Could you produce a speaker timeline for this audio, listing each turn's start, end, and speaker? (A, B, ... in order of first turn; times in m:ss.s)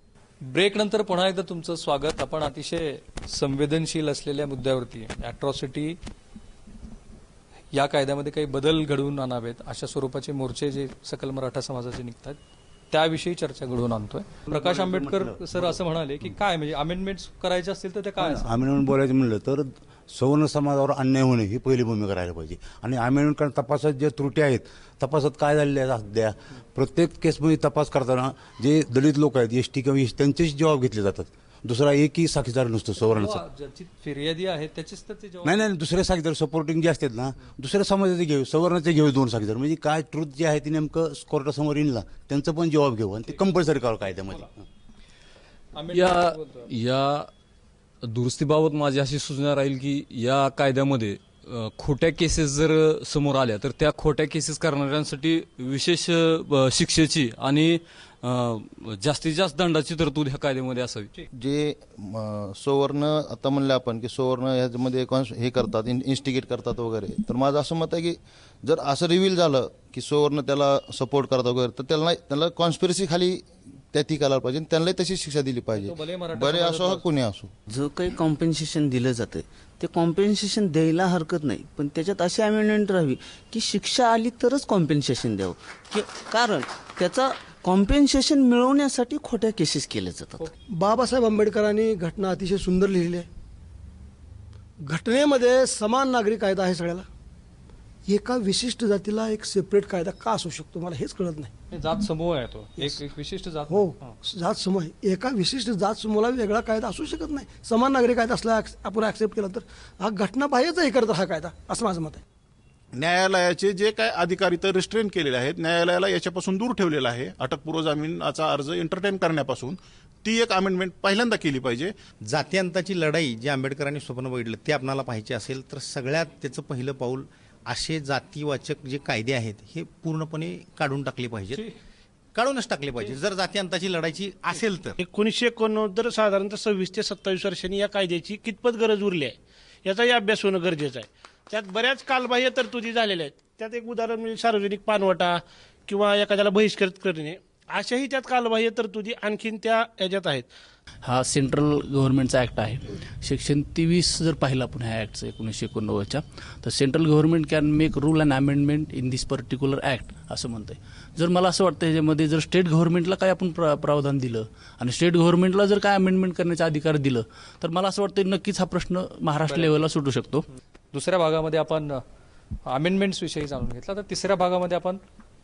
0:00.4-0:06.0 A
0:07.7-0:12.4 A
0:12.9-0:18.5 A
0:14.5-0:15.6 B
0:18.2-0:33.4 B
0:33.0-0:35.6 A
0:35.4-0:44.6 B
0:44.2-0:44.5 A
0:45.7-0:46.7 A
0:45.9-0:46.2 C
0:46.8-0:47.2 C
0:48.1-1:01.0 C
1:01.3-1:17.5 D
1:15.7-1:17.1 A
1:17.6-1:30.4 E
1:30.7-1:33.3 F
1:34.8-1:37.0 F
1:38.1-1:41.5 F
1:41.7-1:44.1 A
1:43.7-1:52.2 F
1:52.9-2:01.9 G
2:02.2-2:11.7 H
2:12.3-2:15.0 H
2:15.0-2:30.5 I
2:31.0-2:50.4 J
2:49.5-2:49.8 A
2:50.9-2:52.0 A
2:52.7-2:55.0 A